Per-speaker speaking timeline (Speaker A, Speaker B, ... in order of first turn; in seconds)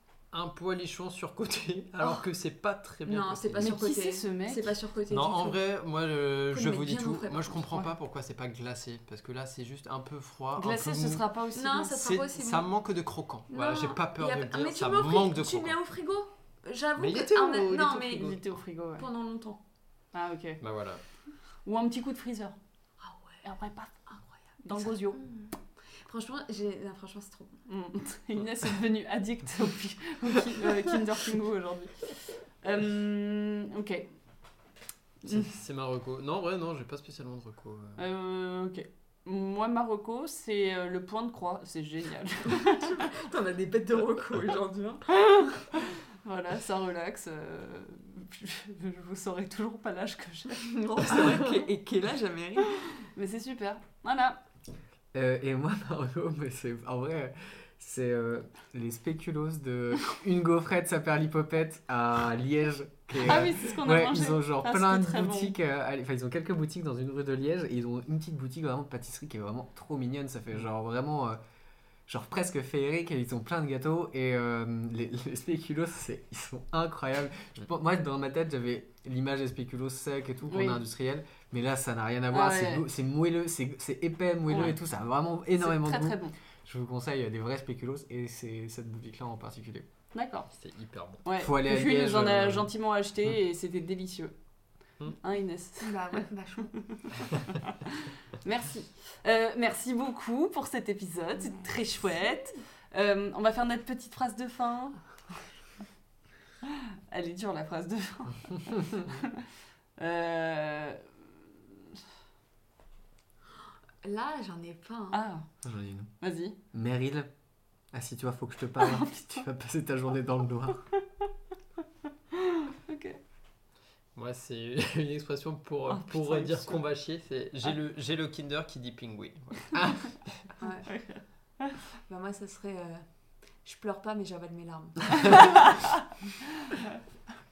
Speaker A: 0.3-3.8, 5.1-11.3, 12.0-15.8, 17.0-18.0, 20.6-21.0, 35.2-38.0, 90.5-91.2, 124.2-130.4
Speaker B: 3.0-5.6, 6.5-7.6, 11.5-12.7, 13.5-19.6, 23.0-23.4, 24.7-27.6, 42.5-45.5, 50.6-52.9, 95.8-97.2, 101.4-102.4, 114.0-115.2, 130.6-130.9, 132.1-133.1, 133.6-135.8
Speaker C: 3.6-4.8, 10.6-12.2, 17.4-19.1, 20.1-20.6, 21.6-22.6, 23.4-24.1, 24.6-25.2, 27.7-34.1, 38.0-43.1, 45.2-50.7, 53.1-54.4, 63.1-65.6, 80.5-80.8, 82.3-82.8, 84.5-84.8, 85.6-86.4, 90.1-90.5, 91.2-94.3, 95.1-96.2, 96.9-105.0, 107.1-109.4, 110.0-111.0, 115.1-115.5, 116.2-116.6, 118.9-119.1, 122.3-123.2, 125.9-126.6, 130.9-131.8, 135.3-136.0, 136.6-136.9
Speaker D: 55.1-71.4, 72.1-89.9, 91.4-92.7, 115.6-116.1, 116.7-117.3, 117.9-120.9